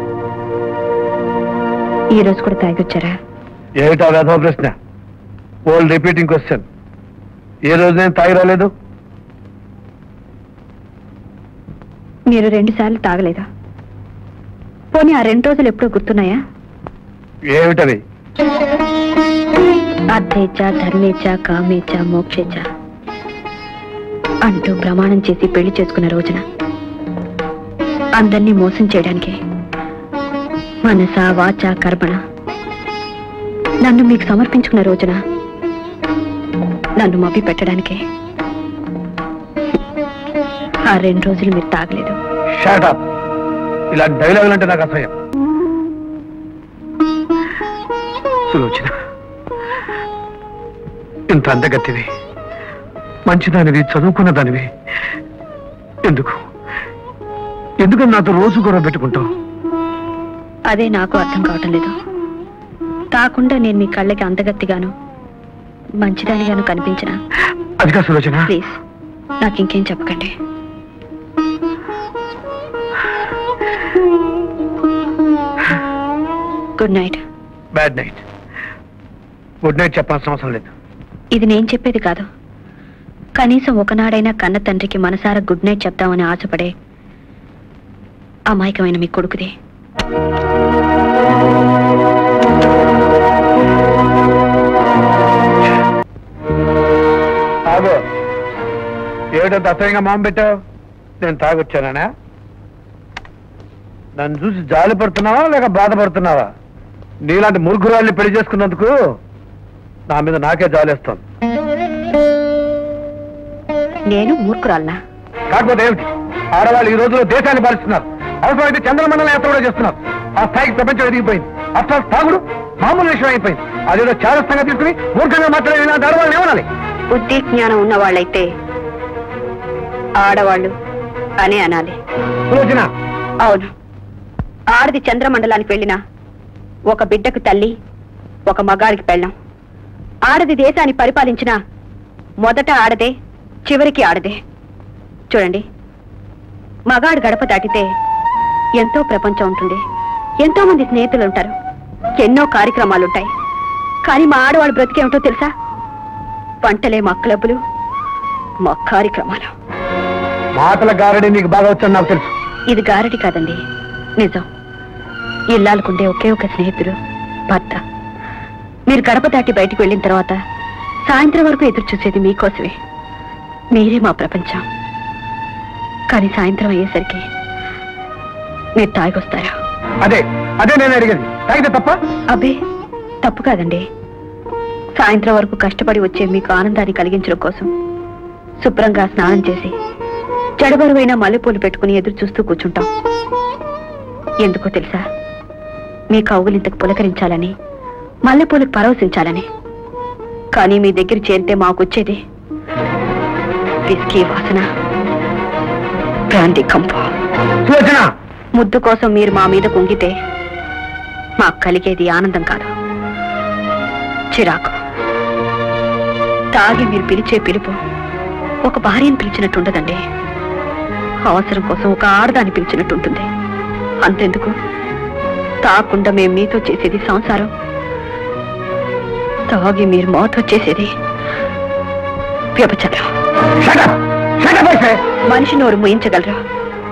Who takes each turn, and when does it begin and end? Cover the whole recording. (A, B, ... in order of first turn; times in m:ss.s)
0:02.1-0:03.1 A
0:03.8-0:04.7 B
0:05.7-0:06.6 B
0:07.7-0:08.7 B
0:12.3-0:13.4 A
0:14.9-0:16.4 A
0:17.5-0:18.0 B
0:20.1-0:22.6 A
0:24.4-0:26.4 A
0:28.2-0:29.4 A
0:30.8-0:32.2 A
0:33.8-0:35.2 A
0:37.0-0:38.0 A
0:40.9-0:42.2 A
0:42.6-0:43.0 B
0:43.9-0:45.1 B
0:48.5-0:48.9 B
0:51.3-0:52.1 B
0:53.3-0:54.7 B
0:56.0-0:56.4 B
0:57.8-0:59.3 B
1:00.7-1:01.9 A
1:03.1-1:04.9 A
1:06.0-1:07.2 A
1:07.8-1:08.5 B
1:08.5-1:08.8 A
1:09.4-1:10.3 A
1:16.8-1:17.2 A
1:17.7-1:18.2 B
1:19.6-1:20.7 B
1:21.3-1:22.2 A
1:23.4-1:26.7 A
1:28.5-1:29.5 A
1:37.7-1:38.0 B
1:39.4-1:40.5 B
1:41.2-1:42.1 B
1:44.2-1:46.5 B
1:47.2-1:48.9 B
1:50.1-1:51.2 B
1:54.1-1:55.0 A
1:55.5-2:06.7 B
2:07.1-2:08.5 A
2:10.2-2:10.7 A
2:11.4-2:12.0 A
2:12.5-2:12.9 B
2:13.4-2:13.7 A
2:14.7-2:16.0 A
2:16.9-2:17.7 A
2:18.5-2:19.3 A
2:20.2-2:21.6 A
2:22.4-2:23.1 A
2:23.6-2:24.4 A
2:25.3-2:25.6 A
2:26.9-2:27.9 A
2:28.8-2:29.8 A
2:30.4-2:31.5 A
2:32.2-2:33.3 A
2:34.1-2:35.5 A
2:36.6-2:37.6 A
2:38.6-2:39.5 A
2:40.6-2:42.3 B
2:42.7-2:43.6 A
2:44.2-2:44.4 A
2:45.5-2:47.0 A
2:47.5-2:47.8 A
2:48.9-2:50.4 A
2:51.1-2:52.7 A
2:53.7-2:54.6 A
2:56.1-2:57.2 A
2:58.8-2:59.5 A
3:00.0-3:02.0 B
3:02.3-3:02.6 A
3:03.2-3:03.8 A
3:05.0-3:07.7 A
3:08.6-3:09.7 A
3:10.6-3:12.9 A
3:14.4-3:15.0 A
3:16.1-3:17.5 A
3:18.2-3:19.4 A
3:20.5-3:22.2 A
3:23.9-3:24.6 A
3:26.3-3:27.1 A
3:27.6-3:28.1 B
3:28.6-3:30.1 A
3:31.4-3:32.7 A
3:34.3-3:34.8 A
3:36.5-3:37.8 A
3:38.6-3:40.0 A
3:41.2-3:43.3 A
3:44.0-3:44.6 A
3:45.6-3:47.5 A
3:49.5-3:50.9 A
3:52.6-3:53.1 A
3:53.6-3:55.0 B
3:55.3-3:56.4 A